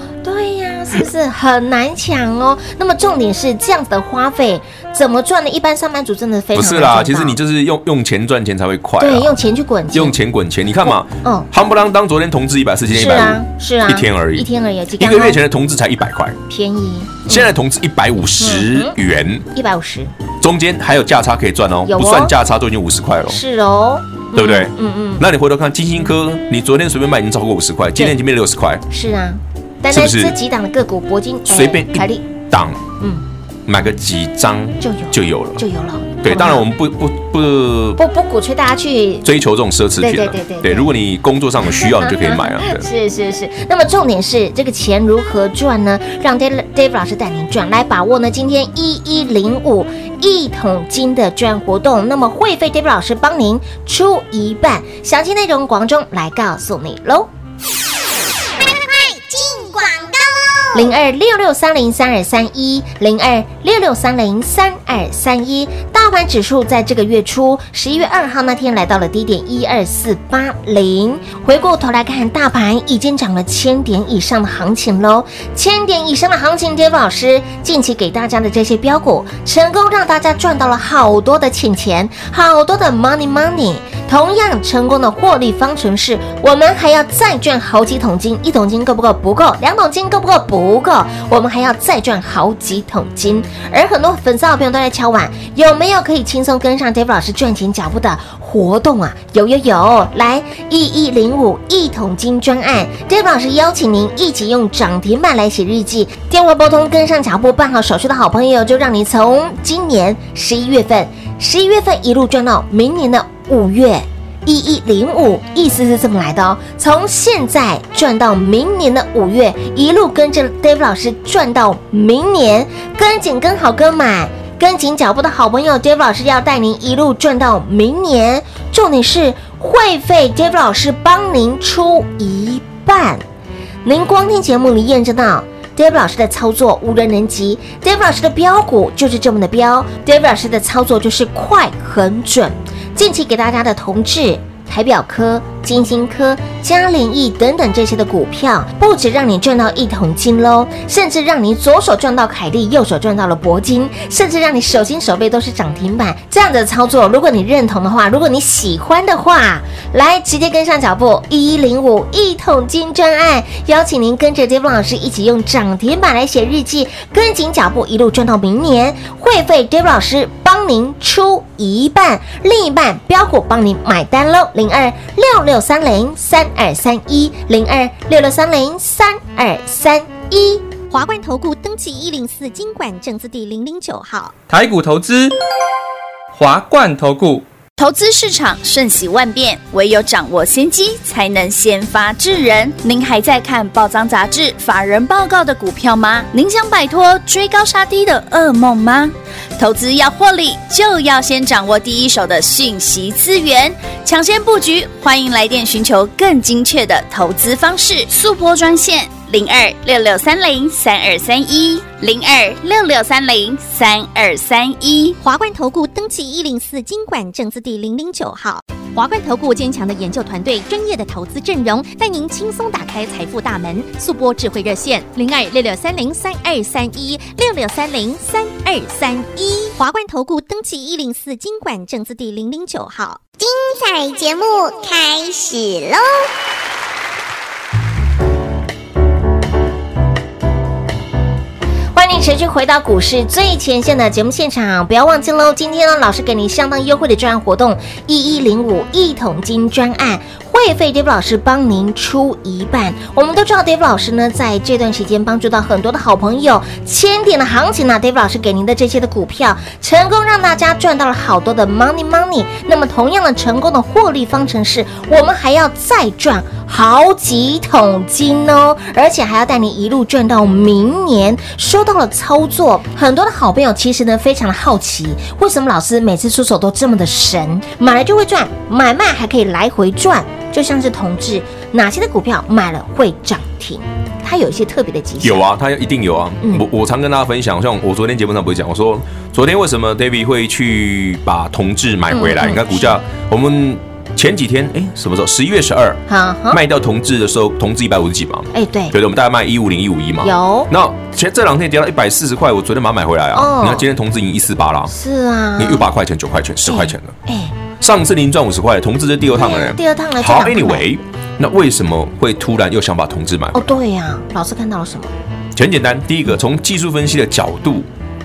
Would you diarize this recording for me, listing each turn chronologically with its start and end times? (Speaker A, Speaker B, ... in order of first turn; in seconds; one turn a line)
Speaker A: 0.2-7.4
Speaker B: 6.5-9.4
Speaker A: 9.0-10.2
Speaker B: 9.9-14.5
Speaker A: 10.8-11.5
Speaker A: 12.9-15.4
Speaker B: 15.0-16.4
Speaker A: 16.5-17.5
Speaker B: 17.3-19.5
Speaker A: 18.4-18.9
Speaker A: 19.5-20.1
Speaker B: 20.4-23.4
Speaker A: 21.8-22.3
Speaker A: 23.2-25.2
Speaker B: 24.3-28.8
Speaker A: 28.9-32.2
Speaker B: 29.9-30.4
Speaker B: 31.5-32.8
Speaker B: 33.6-35.6
Speaker A: 34.8-36.7
Speaker B: 36.2-38.0
Speaker A: 38.0-39.3
Speaker B: 39.2-42.9
Speaker A: 40.0-40.9
Speaker A: 41.6-57.3
Speaker C: 58.5-60.9
Speaker A: 60.7-133.2
Speaker A: 133.8-180.7
Speaker D: 180.9-184.3
Speaker E: 184.5-185.3
Speaker E: 186.3-187.4
Speaker F: 187.8-215.2
Speaker D: 215.2-233.2
Speaker C: 233.4-236.3
Speaker A: 241.9-285.4
Speaker B: 285.2-304.9
Speaker A: 292.1-293.0
Speaker A: 296.1-296.6
Speaker A: 298.5-298.9
Speaker A: 300.2-300.7
Speaker A: 303.3-303.9
Speaker A: 304.9-305.9
Speaker B: 305.6-307.1
Speaker A: 306.6-307.5
Speaker B: 307.8-313.7
Speaker A: 309.3-310.9
Speaker A: 313.5-315.1
Speaker B: 315.5-317.9